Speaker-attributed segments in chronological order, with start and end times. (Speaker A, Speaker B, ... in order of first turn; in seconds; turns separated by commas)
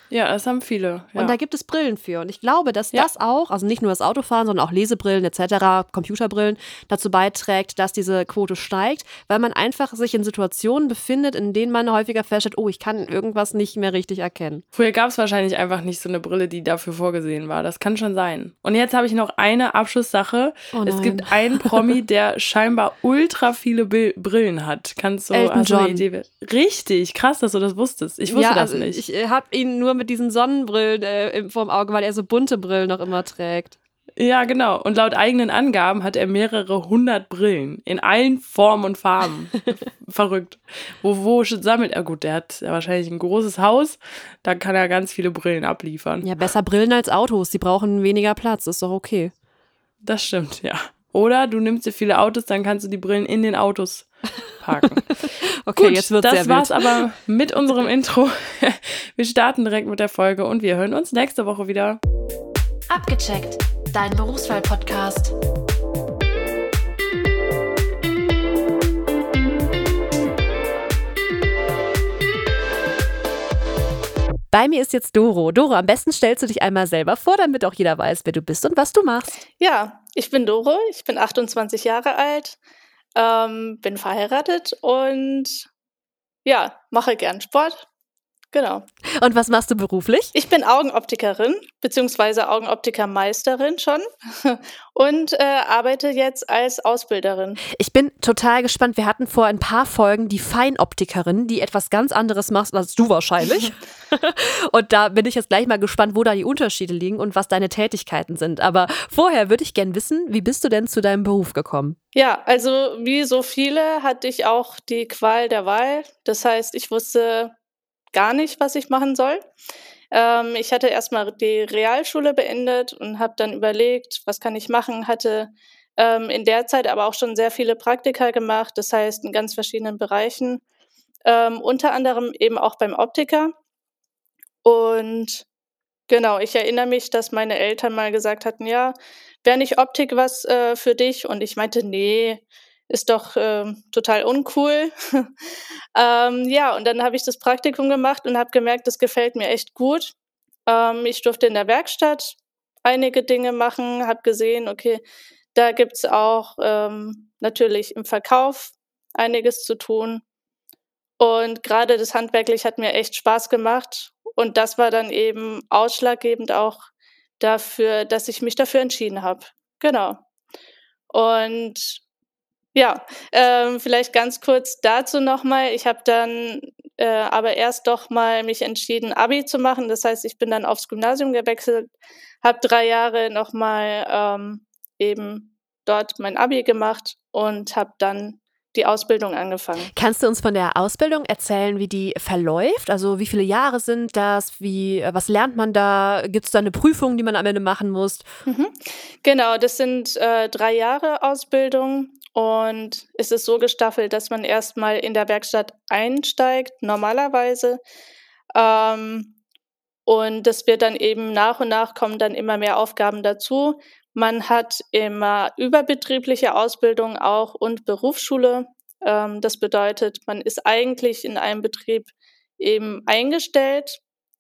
Speaker A: 0.1-1.4, Speaker B: 1.2-14.7, Speaker A: 14.8-29.0, Speaker B: 20.7-21.9, Speaker B: 25.3-26.1, Speaker B: 28.3-33.8, Speaker A: 34.2-46.3, Speaker B: 46.2-49.3, Speaker A: 50.0-55.0, Speaker B: 55.1-57.0, Speaker A: 55.8-62.0, Speaker B: 62.9-65.3, Speaker B: 74.5-79.4, Speaker C: 79.6-82.6, Speaker C: 83.2-85.7, Speaker C: 86.5-87.8, Speaker C: 88.5-88.9, Speaker B: 89.2-90.3, Speaker C: 90.3-97.6, Speaker B: 97.7-112.0, Speaker C: 112.2-117.5, Speaker C: 118.1-119.4, Speaker C: 120.1-130.6, Speaker C: 131.2-133.5, Speaker C: 134.6-135.4, Speaker C: 136.1-145.3, Speaker C: 145.9-150.1, Speaker C: 150.7-155.0, Speaker C: 155.6-160.2, Speaker C: 161.2-166.9, Speaker C: 167.4-170.2, Speaker C: 171.1-172.0, Speaker C: 172.8-189.9, Speaker B: 189.9-198.3, Speaker C: 198.5-207.8, Speaker C: 208.5-209.4, Speaker C: 210.1-224.0